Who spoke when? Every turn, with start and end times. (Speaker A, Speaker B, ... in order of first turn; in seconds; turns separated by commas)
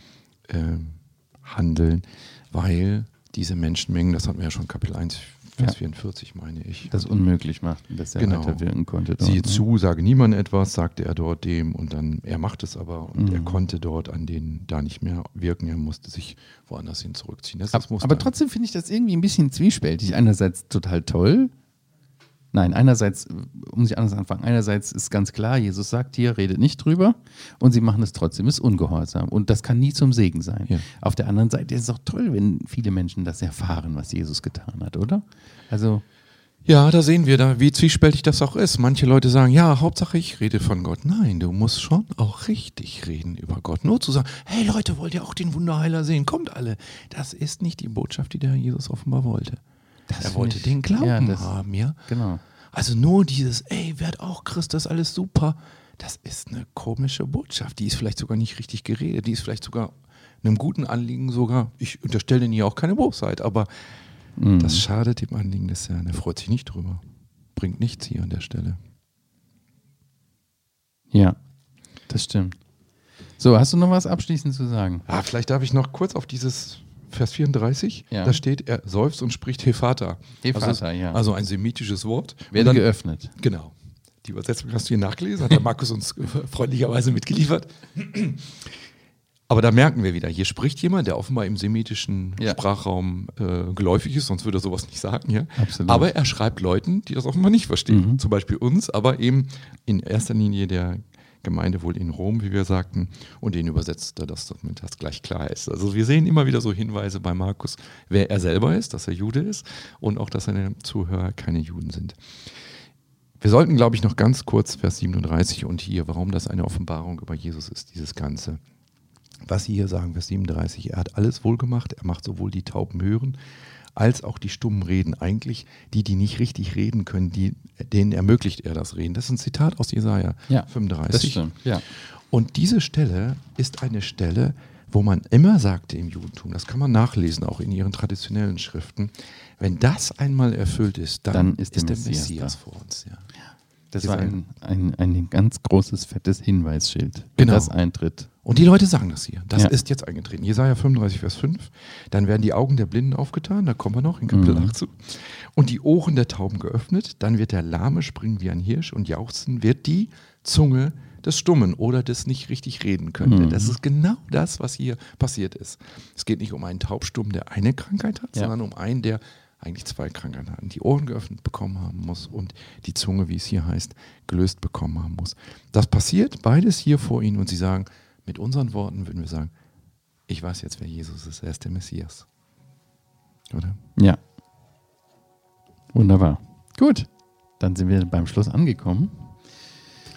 Speaker A: 0.5-7.1, Speaker B: 6.9-9.6, Speaker A: 8.2-8.6, Speaker A: 9.2-18.3, Speaker B: 13.1-13.6, Speaker B: 17.7-21.5, Speaker B: 22.5-36.0, Speaker A: 36.6-49.6, Speaker B: 50.1-51.5, Speaker A: 50.2-52.0, Speaker B: 52.0-52.4, Speaker A: 52.7-63.9, Speaker B: 64.4-64.8, Speaker A: 64.6-67.0, Speaker A: 67.5-68.8, Speaker B: 71.1-71.4, Speaker B: 72.1-72.6, Speaker B: 73.4-75.0, Speaker A: 75.1-82.8, Speaker B: 78.1-78.4, Speaker B: 80.4-81.2, Speaker B: 82.5-83.3, Speaker A: 83.4-88.8, Speaker A: 89.5-112.2, Speaker B: 95.6-96.1, Speaker B: 97.9-98.2, Speaker A: 113.4-118.6, Speaker A: 119.4-123.4, Speaker A: 123.9-143.3, Speaker B: 130.5-131.8, Speaker B: 141.3-142.6, Speaker B: 143.9-148.3, Speaker A: 144.0-144.3, Speaker A: 147.4-147.7, Speaker A: 148.4-179.5, Speaker B: 154.3-154.8, Speaker B: 163.2-163.8, Speaker A: 180.3-182.3, Speaker A: 183.5-183.8, Speaker B: 185.9-189.4